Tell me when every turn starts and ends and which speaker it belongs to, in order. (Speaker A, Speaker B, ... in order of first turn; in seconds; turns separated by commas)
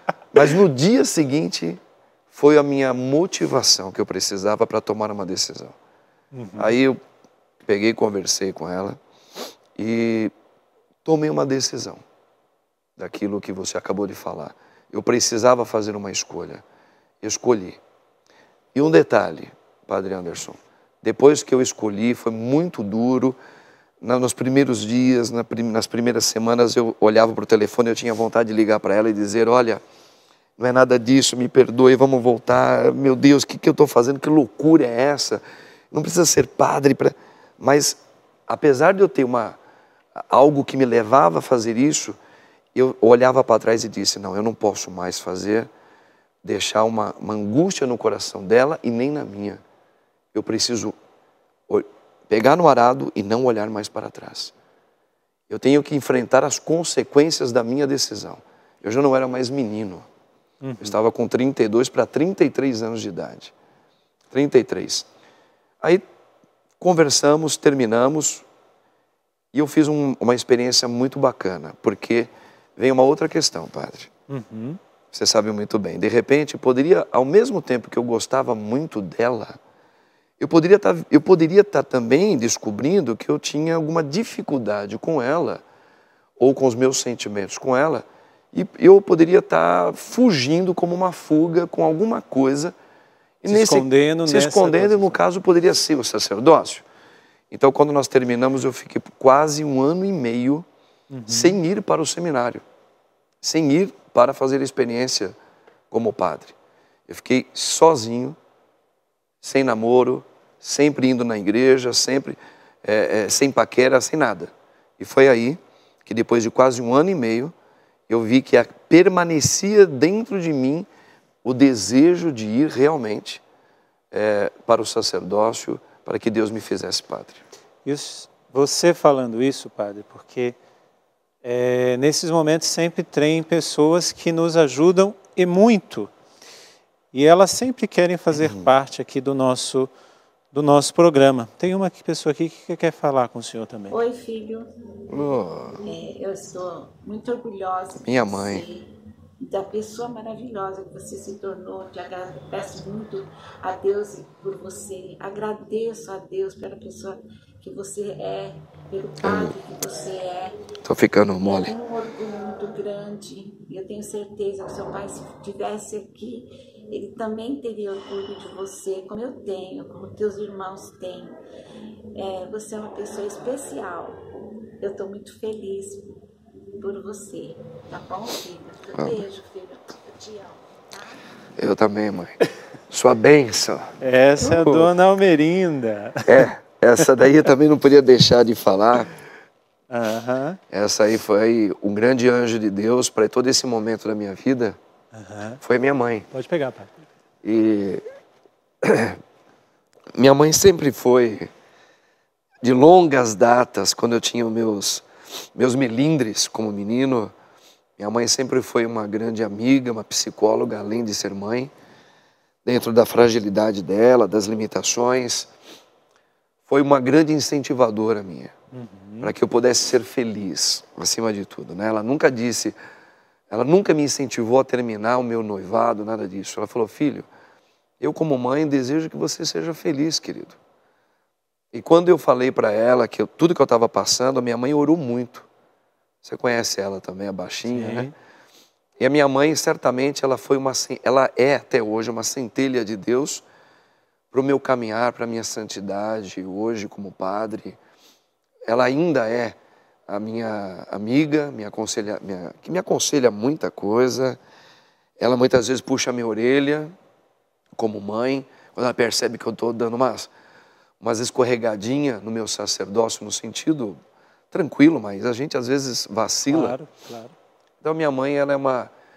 Speaker A: 0.3-5.7, Speaker B: 6.3-6.8, Speaker A: 6.6-7.0, Speaker A: 7.6-9.0, Speaker A: 9.8-10.3, Speaker A: 11.0-12.0, Speaker A: 13.0-16.6, Speaker A: 17.2-17.8, Speaker A: 18.7-23.4, Speaker A: 24.0-29.8, Speaker A: 30.6-39.6, Speaker A: 40.1-42.2, Speaker A: 42.7-45.7, Speaker A: 46.4-49.6, Speaker A: 50.3-50.9, Speaker A: 51.7-54.5, Speaker A: 55.5-60.1, Speaker B: 60.6-61.0, Speaker A: 60.8-63.5, Speaker A: 64.3-65.1, Speaker A: 66.8-68.5, Speaker A: 69.5-74.1, Speaker B: 74.3-74.8, Speaker A: 75.1-79.6, Speaker A: 80.4-85.6, Speaker A: 86.4-92.7, Speaker A: 93.4-96.8, Speaker B: 93.5-95.2, Speaker A: 97.5-100.7, Speaker B: 101.1-101.6, Speaker A: 101.3-102.6, Speaker A: 103.4-105.3, Speaker A: 105.9-106.5, Speaker A: 107.1-108.4, Speaker A: 109.4-117.5, Speaker A: 118.1-120.9, Speaker A: 121.4-123.4, Speaker A: 124.1-127.4, Speaker B: 127.8-130.6, Speaker B: 131.4-136.1, Speaker B: 137.1-139.9, Speaker A: 138.3-138.7, Speaker B: 140.5-144.0, Speaker C: 143.9-145.2, Speaker A: 145.1-145.8, Speaker C: 145.7-160.6, Speaker A: 148.0-148.6, Speaker A: 159.2-159.6, Speaker A: 160.8-161.7, Speaker C: 161.4-171.3, Speaker C: 172.2-174.3, Speaker C: 174.8-176.1, Speaker C: 176.8-181.3, Speaker A: 181.6-182.4, Speaker A: 182.9-184.9, Speaker B: 184.0-186.5, Speaker A: 186.2-189.1, Speaker B: 189.9-190.6, Speaker A: 190.7-194.8, Speaker B: 195.1-195.6, Speaker A: 195.6-196.3, Speaker B: 196.3-196.9, Speaker A: 197.4-198.0, Speaker A: 198.8-199.2, Speaker A: 200.1-201.5, Speaker A: 202.6-207.3, Speaker A: 208.0-211.7, Speaker A: 212.6-215.5, Speaker A: 216.7-218.5, Speaker B: 218.7-219.3, Speaker A: 219.2-222.8, Speaker A: 223.5-227.3, Speaker A: 228.0-230.6, Speaker A: 231.7-235.5, Speaker A: 236.2-238.1, Speaker B: 237.7-238.1, Speaker A: 239.0-243.4, Speaker A: 244.3-247.8, Speaker A: 248.7-249.6, Speaker A: 250.1-254.4, Speaker A: 255.2-256.9, Speaker A: 257.8-260.3, Speaker A: 261.0-264.0, Speaker A: 264.5-266.8, Speaker B: 266.5-267.3, Speaker A: 267.8-268.9